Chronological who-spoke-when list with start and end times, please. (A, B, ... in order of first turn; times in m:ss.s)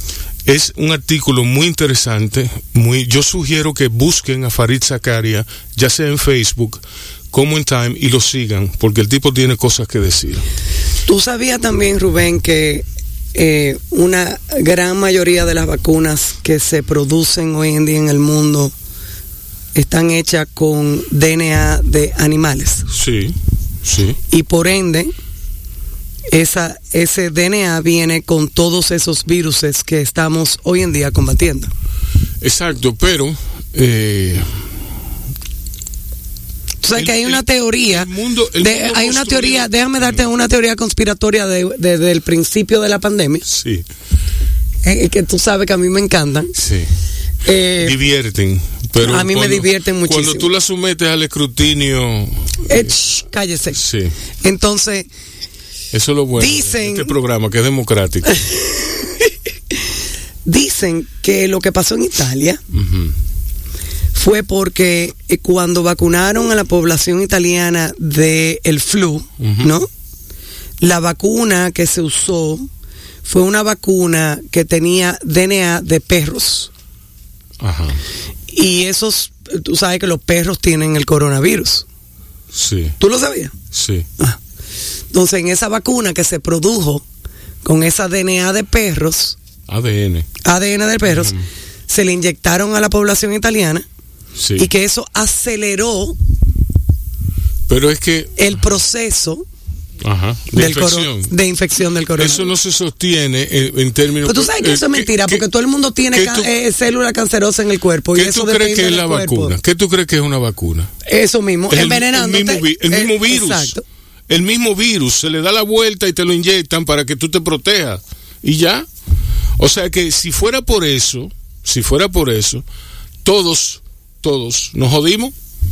0:00.4-0:10.4 A
0:11.0-0:18.7 B
0:19.7-0:22.9 B
0:22.9-0:24.2 A
0:24.3-0:25.1 B
0:26.3-0:31.7 B
0:32.4-0:34.6 A
0:36.8-0:43.4 B
0:36.9-0:40.3 A
0:43.4-0:43.8 A
0:44.8-0:46.5 B
0:46.5-0:46.9 A
0:47.4-0:48.0 B
0:47.8-0:52.9 A
0:49.0-0:50.5 B
0:52.6-0:53.8 B
0:53.7-0:54.1 A
0:54.4-0:55.1 B
0:55.9-0:58.4 A
0:56.4-0:57.1 B
0:58.4-0:59.3 B
1:00.4-1:02.6 B
1:02.7-1:03.2 A
1:04.1-1:09.9 B
1:09.4-1:09.7 A
1:10.8-1:12.7 B
1:13.2-1:16.7 B
1:17.6-1:18.0 A
1:18.5-1:21.8 B
1:22.5-1:23.0 A
1:23.0-1:23.5 B
1:23.7-1:24.1 A
1:25.1-1:27.0 B
1:27.6-1:29.4 B
1:29.7-1:30.3 A
1:30.4-1:31.3 B
1:31.0-1:31.4 A
1:31.9-1:33.8 B
1:34.4-1:34.7 A
1:34.6-1:36.2 B
1:37.7-1:38.6 A
1:38.4-1:39.4 B
1:40.0-1:41.3 A
1:40.5-1:42.5 B
1:42.2-1:45.4 A
1:44.2-1:49.5 B
1:46.1-1:46.5 A
1:48.1-1:50.9 A
1:51.0-1:53.8 B
1:51.7-1:53.8 A
1:54.3-1:58.9 A
1:59.6-2:02.6 A
2:03.2-2:05.3 A